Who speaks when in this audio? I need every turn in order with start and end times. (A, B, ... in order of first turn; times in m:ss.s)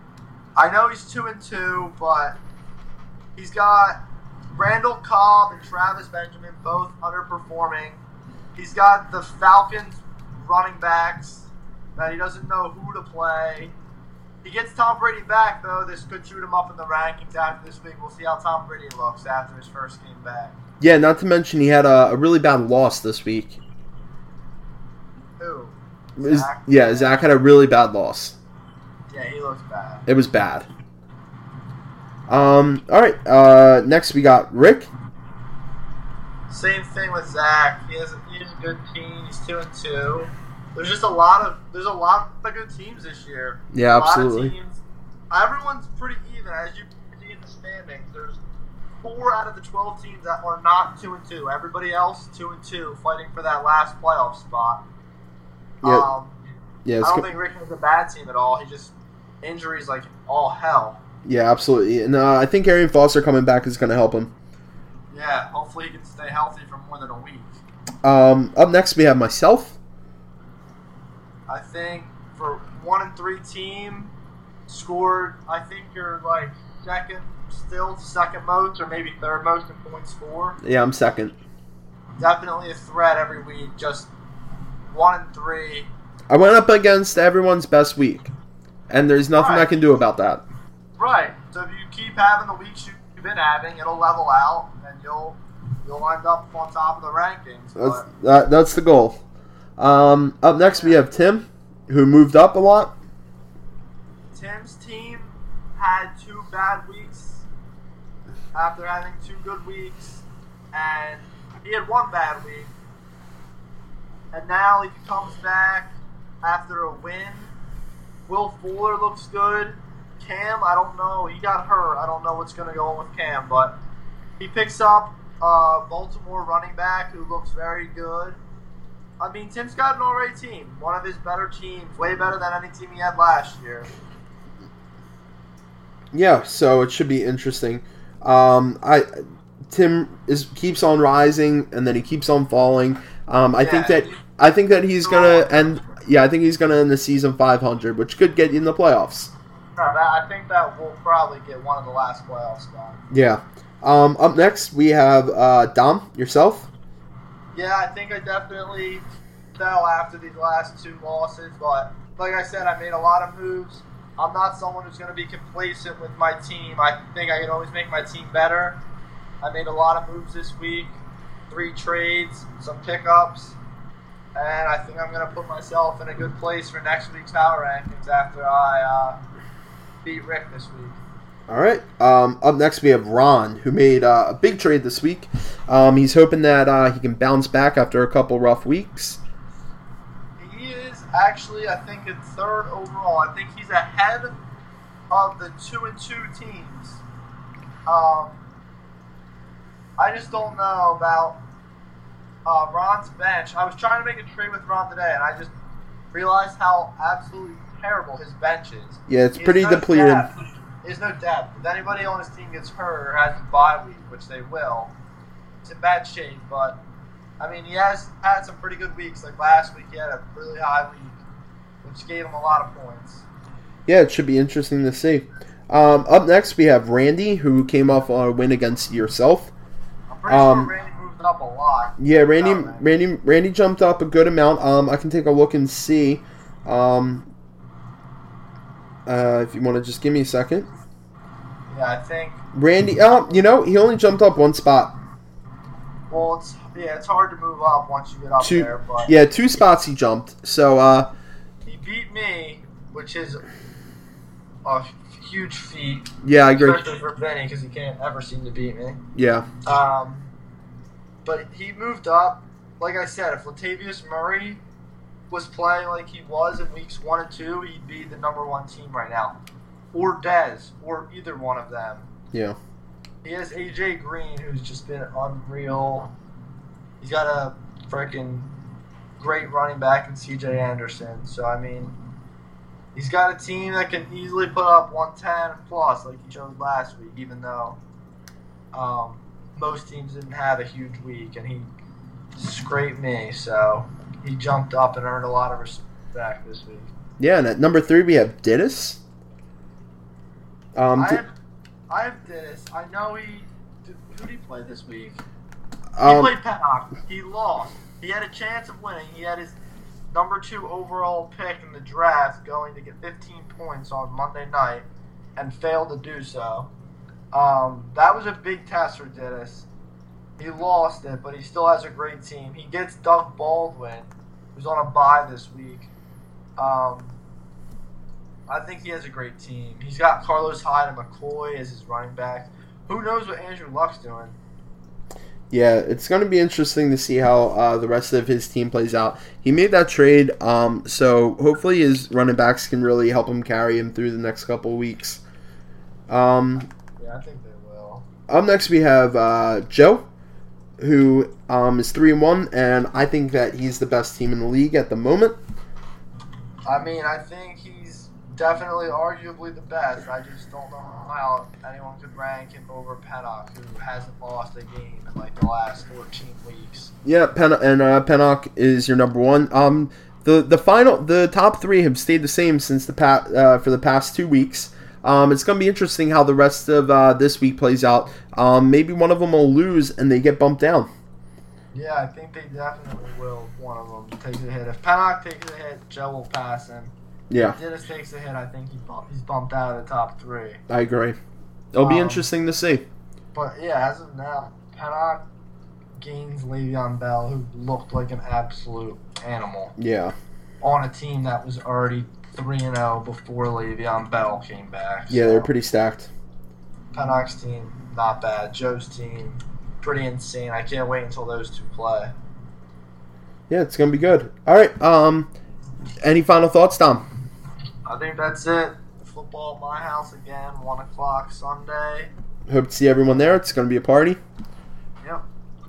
0:00.6-0:02.4 A
0:03.4-0:04.0 A
0:04.5-0:08.0 A
0:08.6-0:13.7 A
0:14.4-0:20.6 A
0:20.8-0:23.6 B
0:25.4-0:27.2 A
0:26.2-0:28.4 B
0:29.1-0:30.1 A
0:30.1-0:30.7 B
0:32.3-0:34.9 B
0:36.5-0:48.4 A
0:43.7-0:44.5 B
0:49.0-0:54.8 A
0:55.8-0:56.1 B
0:55.8-0:56.4 A
0:56.9-0:57.3 B
0:57.0-1:01.0 A
1:01.2-1:04.3 B
1:05.1-1:07.6 A
1:08.0-1:09.8 B
1:11.5-1:14.1 A
1:14.7-1:20.6 A
1:20.6-1:21.4 B
1:22.2-1:24.1 A
1:24.9-1:25.9 A
1:26.3-1:28.3 B
1:28.9-1:30.4 B
1:29.3-1:29.9 A
1:31.0-1:38.1 A
1:37.8-1:39.2 B
1:39.8-1:42.9 B
1:40.8-1:41.0 A
1:44.3-1:47.5 A
1:48.5-1:52.7 A
1:54.3-1:57.5 A
1:58.3-2:03.8 A
2:04.4-2:08.4 A
2:09.2-2:13.9 A
2:16.1-2:29.3 B
2:23.6-2:24.2 A
2:25.0-2:25.9 A
2:29.8-2:33.0 A
2:33.1-2:36.7 B
2:37.5-2:39.0 A
2:39.6-2:48.8 A
2:49.4-2:51.0 A
2:51.5-2:53.6 A
2:54.4-2:59.2 A
3:00.0-3:01.0 A
3:01.5-3:09.2 B
3:10.4-3:14.4 A
3:15.1-3:17.0 A
3:17.9-3:18.4 A
3:20.0-3:21.4 A
3:22.5-3:25.5 A
3:26.1-3:34.9 A
3:29.1-3:30.3 B
3:35.6-3:36.8 A
3:37.4-3:41.2 A
3:41.8-3:43.3 A
3:43.9-3:49.5 B
3:50.1-3:52.8 A
3:50.3-3:50.7 B
3:52.0-3:57.3 B
3:59.1-4:00.7 B
4:01.7-4:02.4 A
4:02.5-4:05.0 B
4:06.1-4:09.1 A
4:08.4-4:11.1 B
4:11.6-4:13.4 A
4:14.6-4:19.0 A
4:16.2-4:16.8 B
4:19.2-4:19.5 B
4:19.6-4:20.3 A
4:21.2-4:24.6 A
4:25.3-4:29.4 A
4:29.9-4:32.1 A
4:32.3-4:32.6 B
4:33.2-4:36.1 A
4:37.0-4:38.5 A
4:39.2-4:42.0 A
4:43.0-4:47.8 A
4:48.7-4:51.7 A
4:52.4-4:56.9 A
4:57.2-4:59.0 B
5:00.8-5:01.2 B
5:01.0-5:01.3 A
5:01.9-5:05.2 A
5:06.0-5:06.3 B
5:06.0-5:09.6 A
5:10.1-5:14.9 A
5:15.4-5:16.7 A
5:17.3-5:19.7 A
5:20.4-5:25.9 A
5:26.6-5:27.2 A
5:28.5-5:34.4 A
5:35.5-5:45.2 B
5:46.1-5:46.7 B
5:47.0-5:48.1 A
5:48.3-5:50.0 B
5:50.8-5:55.4 B
5:56.7-6:06.9 A
6:07.0-6:20.9 B
6:21.7-6:30.6 A
6:27.3-6:27.6 B
6:30.7-6:31.2 B
6:31.7-6:32.8 B
6:31.8-6:32.3 A
6:33.3-6:35.2 A
6:36.0-6:39.8 A
6:39.8-6:40.2 B
6:40.6-6:45.5 A
6:45.1-6:46.1 B
6:46.9-6:52.1 A
6:53.5-6:55.3 B
6:56.0-6:57.0 B
6:57.9-7:02.1 A
7:02.5-7:04.2 B
7:03.1-7:03.4 A